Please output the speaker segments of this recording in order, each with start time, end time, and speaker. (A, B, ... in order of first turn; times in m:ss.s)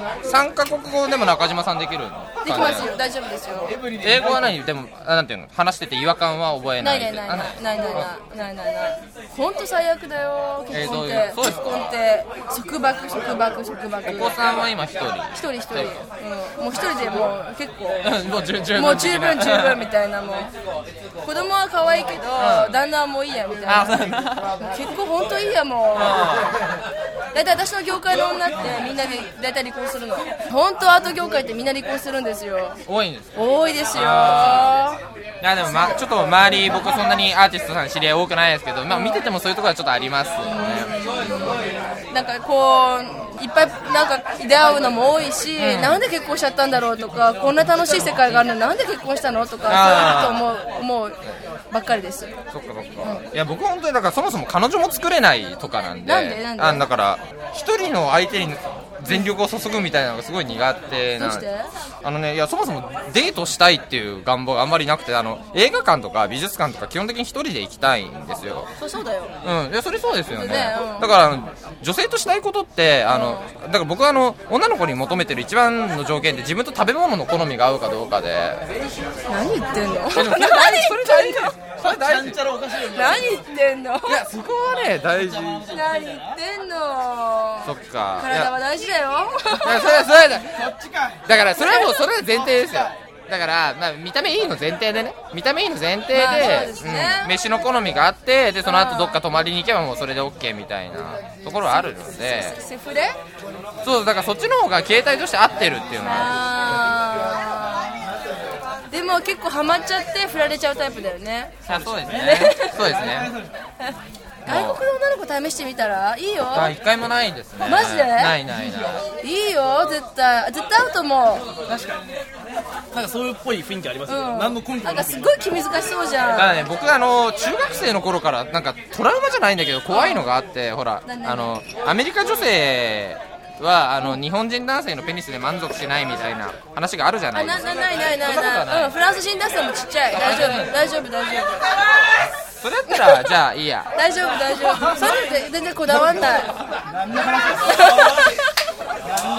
0:00.2-0:02.9 A
0:02.4-0:03.8 B
0:03.9-0:08.1 A
0:06.8-0:14.6 B
0:10.7-0:12.0 A
0:14.0-0:16.0 A
0:15.3-0:18.1 B
0:18.0-0:19.8 A
0:18.7-0:20.5 B
0:21.2-0:24.0 B
0:22.4-0:22.8 A
0:23.6-0:24.6 A
0:24.6-0:26.3 B
0:25.9-0:26.6 A
0:27.3-0:32.8 B
0:32.8-0:33.4 A
0:33.3-0:35.0 B
0:33.9-0:34.9 A
0:35.4-0:41.6 A
0:38.9-0:39.2 B
0:40.4-0:51.2 B
0:45.6-0:46.0 A
0:49.7-0:50.5 A
0:51.7-0:52.3 B
0:52.5-1:01.5 A
0:56.0-0:56.8 B
1:01.2-1:01.7 B
1:02.0-1:08.7 A
1:08.8-1:09.3 B
1:09.4-1:18.6 A
1:10.4-1:11.1 B
1:13.1-1:13.5 B
1:19.3-1:21.5 B
1:20.1-1:22.4 A
1:21.8-1:23.4 C
1:22.9-1:24.2 B
1:24.1-1:25.8 A
1:25.7-1:30.1 B
1:25.8-1:26.3 C
1:27.6-1:28.5 A
1:29.6-1:30.7 A
1:31.2-1:42.6 A
1:31.6-1:32.0 B
1:36.1-1:37.3 B
1:38.6-1:39.2 B
1:41.9-1:43.2 B
1:43.8-1:46.5 A
1:46.0-1:48.0 B
1:48.9-1:51.5 B
1:51.6-1:53.3 A
1:52.1-1:53.0 B
1:53.8-1:56.7 B
1:54.4-1:54.8 A
1:56.5-1:59.0 A
1:57.6-1:58.4 B
1:59.2-2:01.5 B
2:01.7-2:02.0 C
2:02.9-2:05.3 C
2:04.1-2:06.5 B
2:06.3-2:19.0 A
2:09.9-2:10.3 B
2:11.0-2:11.5 B
2:17.3-2:21.7 B
2:20.1-2:20.8 A
2:22.6-2:23.9 A
2:23.9-2:26.6 B
2:27.4-2:28.5 B
2:27.4-2:28.2 C